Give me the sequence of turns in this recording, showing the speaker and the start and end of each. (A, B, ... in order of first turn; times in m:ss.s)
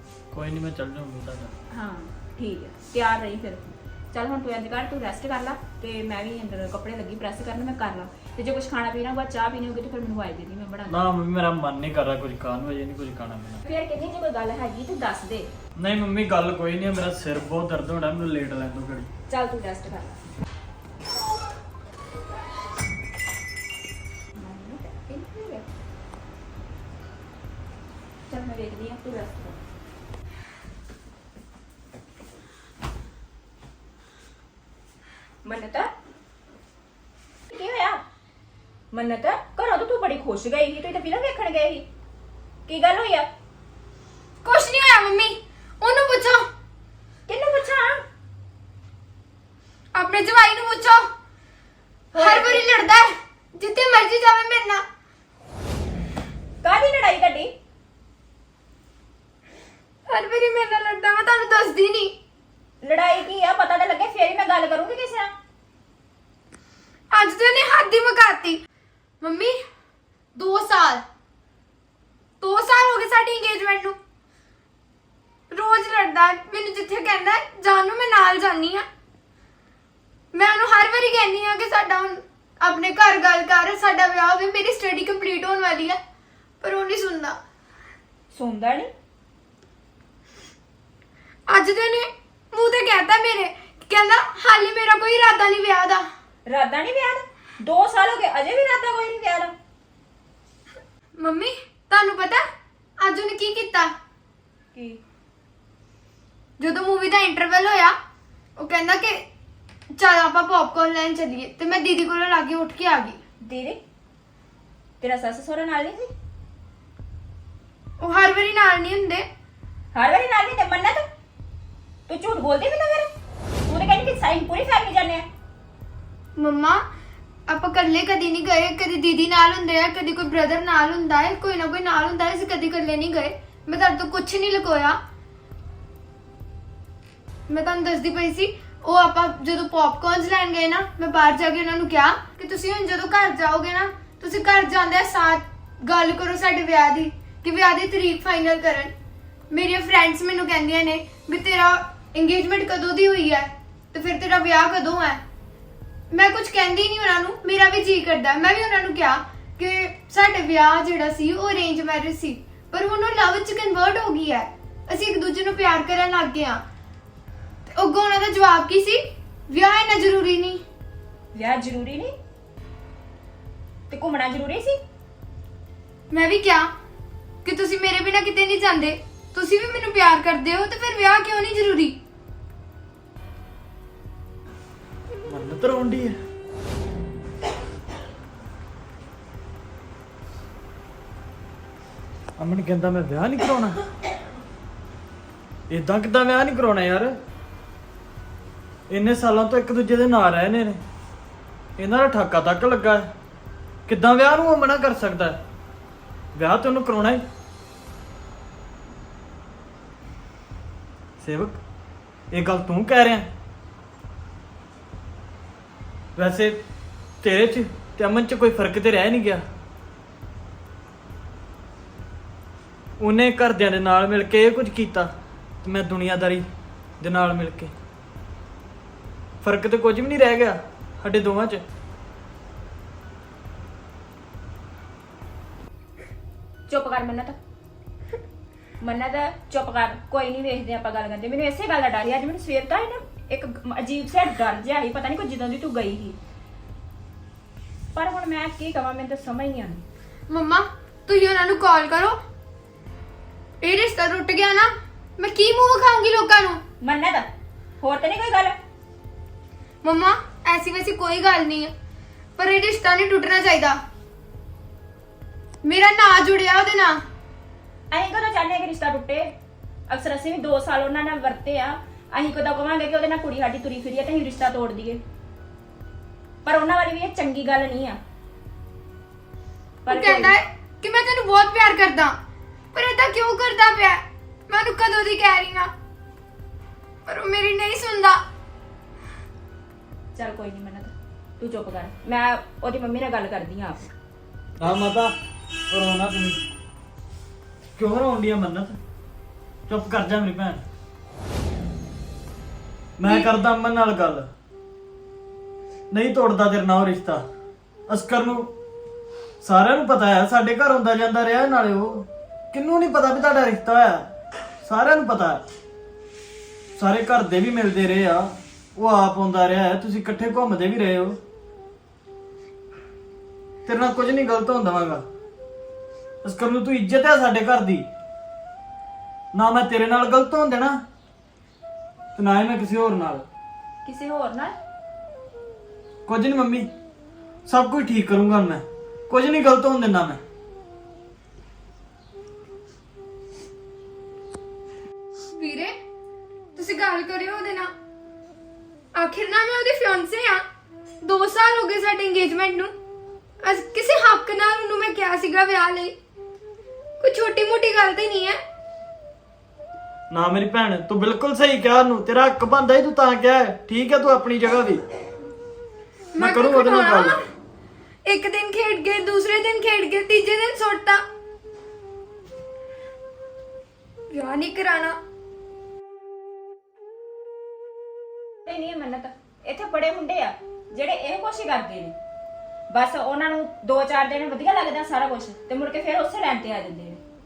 0:00.3-0:01.6 A
0:01.7-0:11.0 B
0:10.9-0:13.6 A
0:13.6-0:15.5 B
0:15.8-0:19.1 A
0:19.3-0:20.2 B
0:24.3-0:25.6 B
0:28.3-0:29.6 B
0:35.4-0:35.9 B
0:37.5-0:38.0 B
0:38.9-0:41.9 B
0:42.7-0:43.3 B
0:44.4-0:46.4 C
0:47.3-0:48.0 B
0:49.9-0:51.0 C
0:52.1-0:52.7 B
0:52.1-0:54.8 C
0:56.6-0:57.5 B
1:00.1-1:02.1 C
1:02.8-1:05.3 B
1:07.1-1:08.6 C
1:09.2-1:09.5 C
1:10.4-1:11.0 C
1:12.4-1:13.9 C
1:15.5-1:18.8 C
1:20.3-1:26.0 C
1:26.6-1:27.4 C
1:28.3-1:28.9 B
1:31.5-1:36.0 C
1:36.5-1:39.5 B
1:41.2-1:42.4 C
1:43.0-1:43.9 C
1:44.7-1:45.0 B
1:46.6-1:47.9 C
1:48.6-1:49.2 C
1:50.0-1:53.2 C
1:53.4-1:53.8 B
1:55.0-1:56.1 B
1:58.0-1:59.2 C
1:59.9-2:01.0 B
2:02.1-2:03.1 B
2:03.7-2:05.2 B
2:06.4-2:06.8 C
2:07.5-2:15.0 C
2:17.5-2:28.9 C
2:29.5-2:35.2 C
2:36.1-2:46.6 C
2:47.7-2:50.6 C
2:51.3-2:52.1 B
2:53.9-2:54.8 B
2:56.1-2:56.7 C
2:57.4-3:02.0 C
3:05.3-3:06.2 A
3:12.4-3:13.8 A
3:15.7-3:17.2 A
3:18.9-3:20.8 A
3:21.8-3:23.1 A
3:23.8-3:25.4 A
3:26.3-3:27.2 A
3:31.2-3:31.6 A
3:32.3-3:33.3 A
3:36.2-3:36.6 A
3:37.2-3:39.4 A
3:43.0-3:46.4 A
3:47.0-3:47.7 A
3:49.4-3:51.6 A
3:56.7-3:57.4 B
3:58.8-4:06.2 B
4:07.9-4:09.8 B
4:10.3-4:12.2 C
4:13.6-4:16.6 C
4:16.8-4:17.2 B
4:17.8-4:18.5 B
4:19.8-4:21.7 C
4:22.4-4:23.8 C
4:25.6-4:27.0 C
4:27.9-4:29.4 B
4:29.9-4:35.0 B
4:36.4-4:38.0 B
4:39.8-4:40.4 B
4:39.9-4:42.1 C
4:42.7-4:45.7 C
4:47.1-4:48.2 C
4:50.1-4:53.8 B
4:54.6-4:55.1 A
4:55.7-4:56.4 A
4:57.8-4:58.8 A
4:59.7-5:00.6 A
5:03.0-5:04.3 A
5:05.9-5:07.2 A
5:07.9-5:08.5 A
5:09.4-5:14.1 A
5:14.6-5:15.4 A
5:16.8-5:21.2 A
5:23.6-5:25.0 A
5:26.2-5:27.9 A
5:29.3-5:30.8 A
5:32.2-5:33.2 A
5:33.8-5:34.5 B
5:36.0-5:36.7 A
5:37.4-5:40.2 A
5:45.3-5:45.7 C
5:46.6-5:47.7 C
5:48.9-5:50.4 C
5:51.0-5:52.7 C
5:53.4-5:55.9 C
5:57.0-5:58.4 C
6:00.1-6:04.8 A
6:06.1-6:07.2 A
6:06.2-6:07.2 C
6:08.0-6:11.0 C
6:14.1-6:15.0 C
6:18.4-6:22.0 B
6:22.7-6:27.0 B